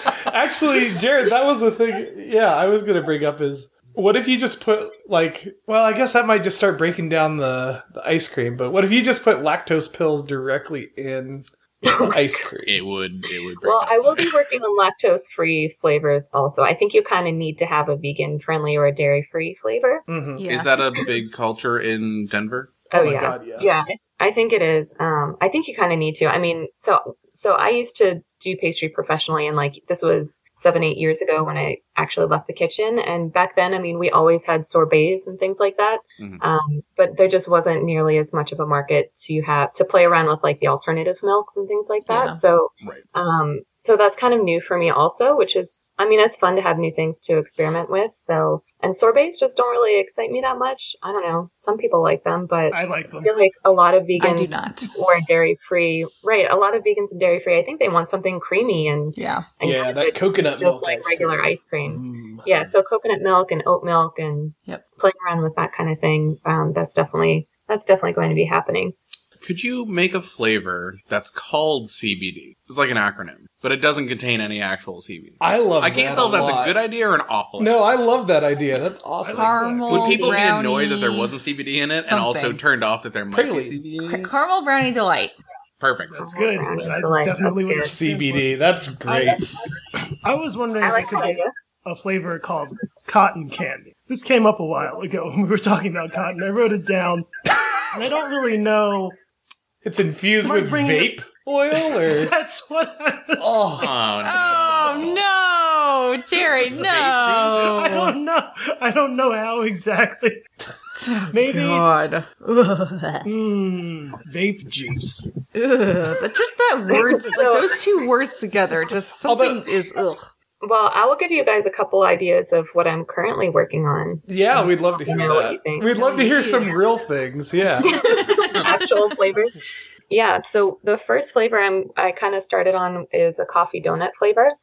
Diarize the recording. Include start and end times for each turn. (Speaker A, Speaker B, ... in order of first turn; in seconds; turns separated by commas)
Speaker A: 0.2-12.9, Speaker B: 11.8-12.4, Speaker C: 12.6-14.3, Speaker B: 13.6-20.0, Speaker A: 20.1-20.4, Speaker D: 20.4-20.7, Speaker C: 20.4-22.8, Speaker B: 22.9-68.9, Speaker A: 22.9-23.7, Speaker D: 42.0-42.4, Speaker E: 52.7-53.3, Speaker D: 54.2-54.9, Speaker D: 59.1-59.5, Speaker A: 59.6-62.5, Speaker C: 69.4-77.9, Speaker A: 75.4-76.8, Speaker A: 77.6-79.7, Speaker E: 79.2-80.4, Speaker D: 79.3-81.3, Speaker C: 79.9-84.3, Speaker D: 82.0-82.6, Speaker A: 83.3-83.8, Speaker D: 84.0-85.3, Speaker C: 85.8-86.2, Speaker E: 86.1-89.5, Speaker B: 86.2-87.9, Speaker A: 87.8-89.4, Speaker E: 90.1-97.3, Speaker B: 90.8-91.5, Speaker E: 97.9-99.2, Speaker A: 99.8-102.3, Speaker E: 100.4-101.2, Speaker E: 101.7-103.7, Speaker A: 103.4-104.0, Speaker C: 103.8-105.2, Speaker D: 104.2-108.1, Speaker C: 106.7-107.7, Speaker E: 107.5-110.4, Speaker D: 110.9-113.3, Speaker E: 111.3-111.9, Speaker E: 113.2-115.2, Speaker D: 115.5-120.2, Speaker B: 117.2-117.8, Speaker A: 119.2-119.7, Speaker B: 120.6-126.0, Speaker A: 124.3-128.2, Speaker D: 125.8-126.8, Speaker B: 127.8-129.6, Speaker B: 130.1-134.5